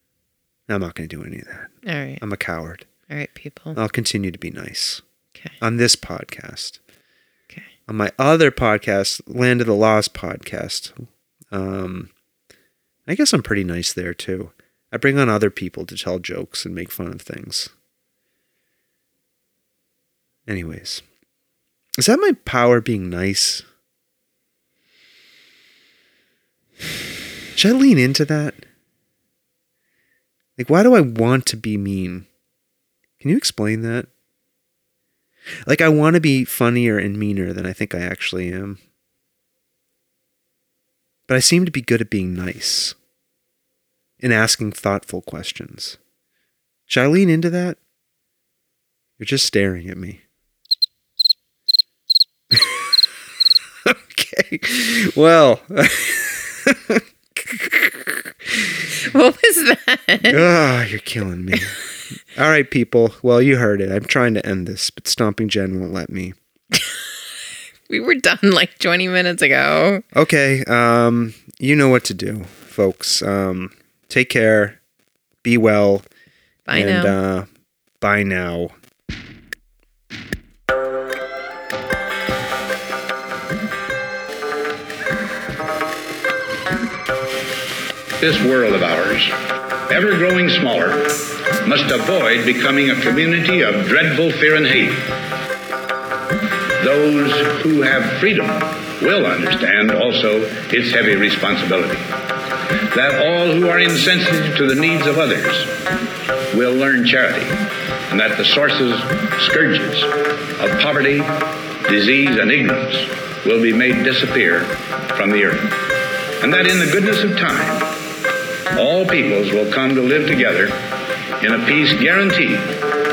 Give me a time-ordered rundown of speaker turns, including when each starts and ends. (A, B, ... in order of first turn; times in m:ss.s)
0:00.7-0:02.9 A
0:01.8-0:02.2 B
0:03.1-0:03.8 B
0:03.8-0:05.0 A
0:05.6-0:06.8 A
0:07.9-0:12.1 A
0:13.1-0:17.7 A
0:20.5-0:21.0 A
0:22.0-0:23.6 A
0:27.6-0:28.6 A
0:30.6-0:32.3 A
0:33.2-0:34.1 A
0:35.6-0:38.8 A
0:41.3-0:43.0 A
0:44.2-0:46.0 A
0:46.9-0:47.8 A
0:49.2-0:50.2 A
0:52.5-0:52.8 A
0:53.8-0:58.3 A
0:58.9-1:00.4 B
1:00.3-1:01.8 A
1:02.3-1:06.4 A
1:07.9-1:10.0 B
1:10.1-1:14.8 A
1:15.4-1:16.1 A
1:16.7-1:17.2 B
1:16.7-1:17.5 A
1:18.0-1:18.8 A
1:28.2-1:29.4 C
1:29.9-1:35.2 C
1:36.8-1:42.1 C
1:42.8-1:45.8 C
1:46.5-1:55.8 C
1:56.4-1:57.9 C
1:58.7-2:00.8 C
2:01.4-2:02.8 C